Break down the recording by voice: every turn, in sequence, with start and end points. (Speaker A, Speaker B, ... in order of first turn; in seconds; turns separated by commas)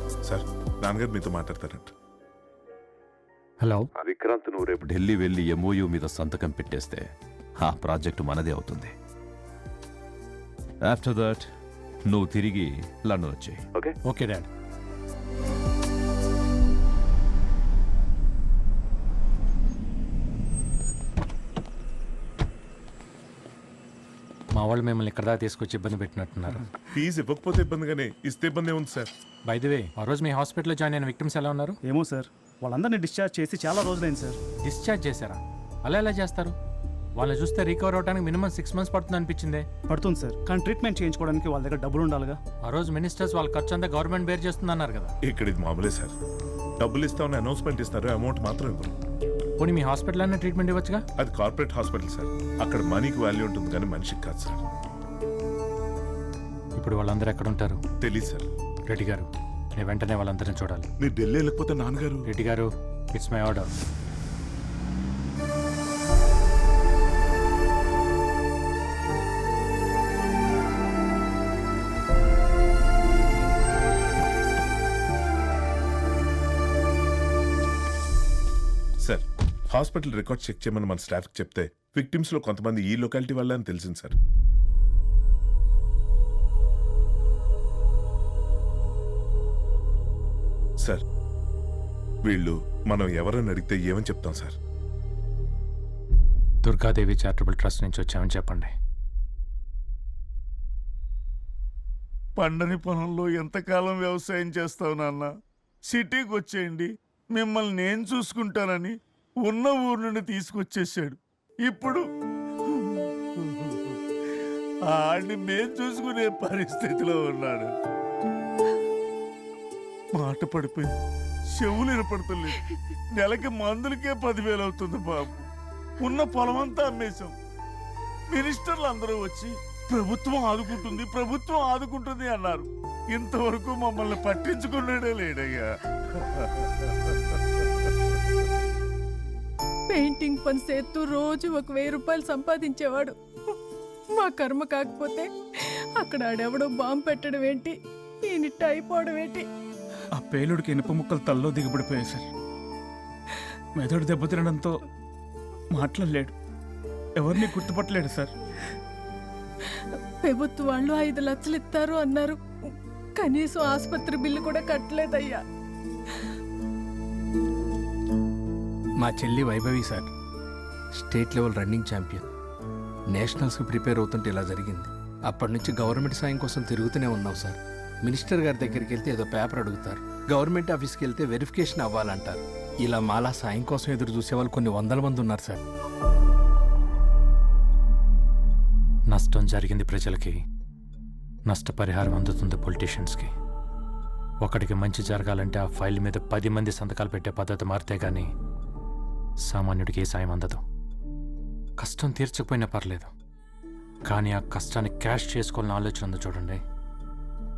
Speaker A: 0.3-1.9, Speaker B: 3.6-3.9, Speaker C: 4.0-7.1, Speaker C: 7.6-8.9, Speaker C: 10.8-11.5, Speaker C: 12.1-13.9, Speaker B: 14.1-14.5, Speaker B: 24.6-26.6, Speaker A: 26.9-29.1, Speaker B: 29.5-31.8, Speaker D: 31.8-34.4, Speaker B: 34.6-36.5, Speaker B: 37.2-39.6, Speaker D: 39.9-42.4, Speaker B: 42.6-45.1, Speaker A: 45.2-46.1, Speaker A: 46.8-48.9, Speaker B: 49.6-51.0, Speaker A: 51.2-54.6, Speaker B: 56.8-57.8, Speaker A: 58.0-58.5, Speaker B: 58.9-60.9, Speaker A: 61.0-62.2, Speaker B: 62.3-63.7, Speaker A: 79.0-84.2, Speaker A: 92.3-94.6, Speaker B: 96.7-98.7, Speaker E: 102.4-105.3, Speaker E: 105.9-112.0, Speaker E: 113.6-114.0, Speaker E: 114.9-117.7, Speaker E: 120.2-120.9, Speaker E: 121.5-122.6, Speaker E: 123.1-125.5, Speaker E: 126.0-127.3, Speaker E: 128.3-135.7, Speaker F: 139.9-143.6, Speaker F: 144.1-145.3, Speaker F: 146.0-149.5, Speaker F: 160.2-165.4, Speaker G: 169.0-170.1, Speaker G: 170.9-172.2, Speaker G: 173.1-185.6, Speaker B: 189.1-190.4, Speaker B: 191.5-193.3, Speaker B: 194.4-198.3, Speaker B: 199.5-200.6, Speaker B: 201.8-203.1, Speaker B: 204.1-206.6